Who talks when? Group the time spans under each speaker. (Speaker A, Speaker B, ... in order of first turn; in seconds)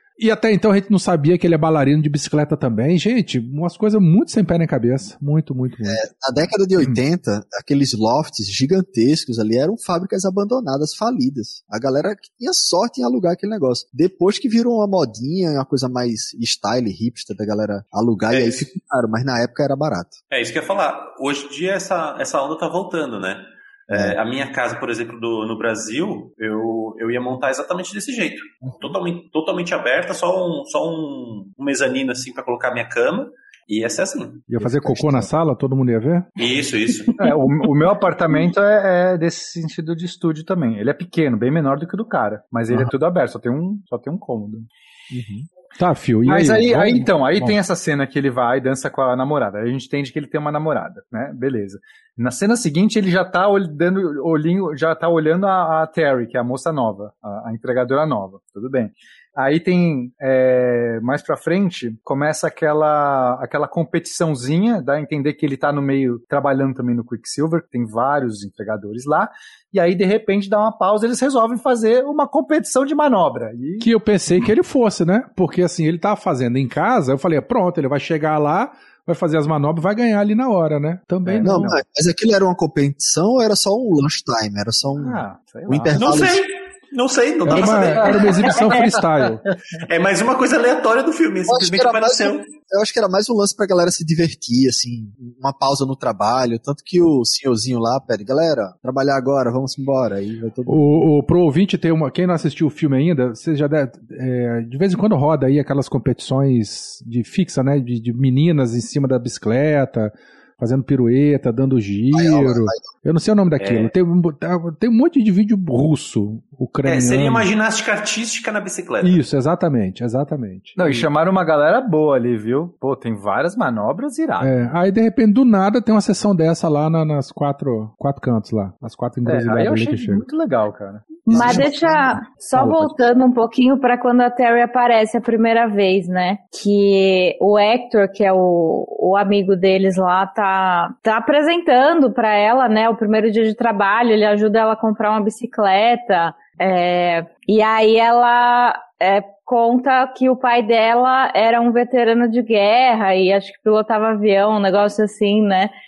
Speaker A: 0.2-6.0, 34.5-36.3, 45.2-47.6, 73.8-81.7, 87.5-89.4, 100.7-117.5, 119.0-121.1, 124.4-130.3, 132.6-132.9
Speaker B: 5.9-20.1, 23.9-24.2, 34.6-35.3, 81.4-86.5, 91.5-101.0, 112.1-112.9, 131.3-132.2
Speaker C: 18.3-18.7, 20.3-34.5, 36.4-37.2, 86.0-88.7, 89.8-92.4, 113.6-113.9, 116.8-119.2
Speaker D: 37.2-44.7, 46.3-73.9, 81.2-81.8, 85.0-86.3, 87.5-89.3, 120.8-124.5, 129.2-131.2
Speaker E: 131.3-155.7